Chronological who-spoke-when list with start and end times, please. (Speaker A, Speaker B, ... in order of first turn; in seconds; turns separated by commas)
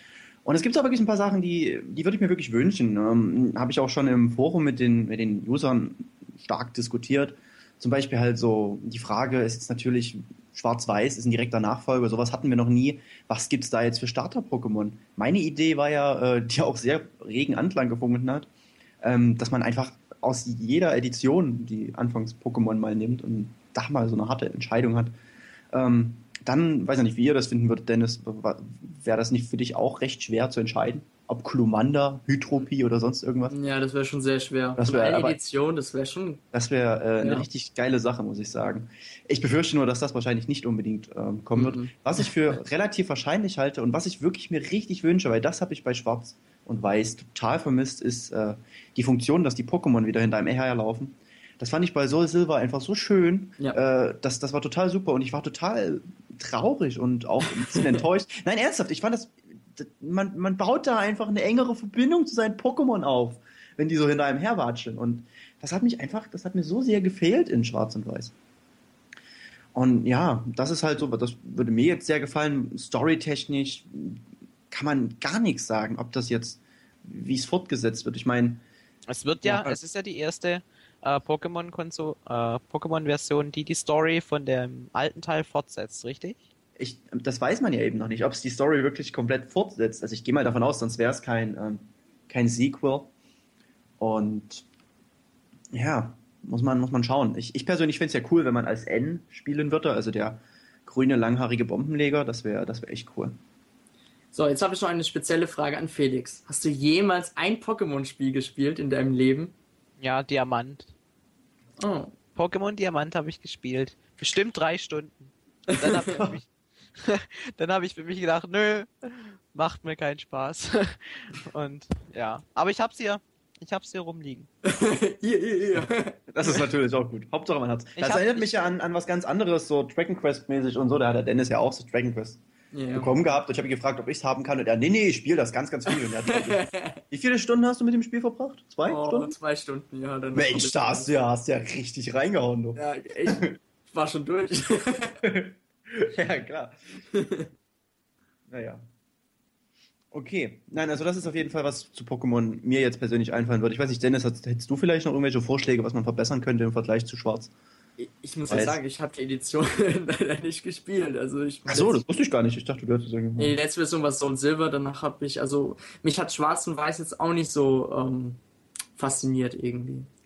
Speaker A: 0.5-18.5, Speaker A: 19.0-25.1, Speaker A: 25.7-33.5, Speaker B: 33.5-36.4, Speaker A: 34.8-35.4, Speaker A: 36.5-68.3, Speaker B: 41.6-41.9, Speaker A: 69.7-78.6, Speaker C: 79.1-86.5, Speaker A: 79.4-79.8, Speaker A: 86.8-93.1, Speaker A: 94.0-94.7, Speaker A: 95.7-103.4, Speaker B: 104.3-109.5, Speaker C: 110.0-110.9, Speaker B: 111.8-112.2, Speaker C: 112.3-124.5, Speaker B: 115.7-116.2, Speaker B: 124.6-126.2, Speaker A: 126.3-132.4, Speaker C: 128.0-128.6, Speaker B: 132.7-133.1, Speaker A: 132.9-139.3, Speaker B: 136.3-137.0, Speaker B: 138.9-141.1, Speaker A: 140.3-143.5, Speaker B: 142.8-145.2, Speaker A: 145.2-146.8, Speaker B: 147.2-147.4, Speaker A: 148.5-148.8, Speaker A: 150.1-157.5, Speaker B: 158.0-162.0, Speaker A: 158.5-158.8, Speaker A: 161.7-163.6, Speaker B: 163.4-168.4, Speaker B: 169.0-170.1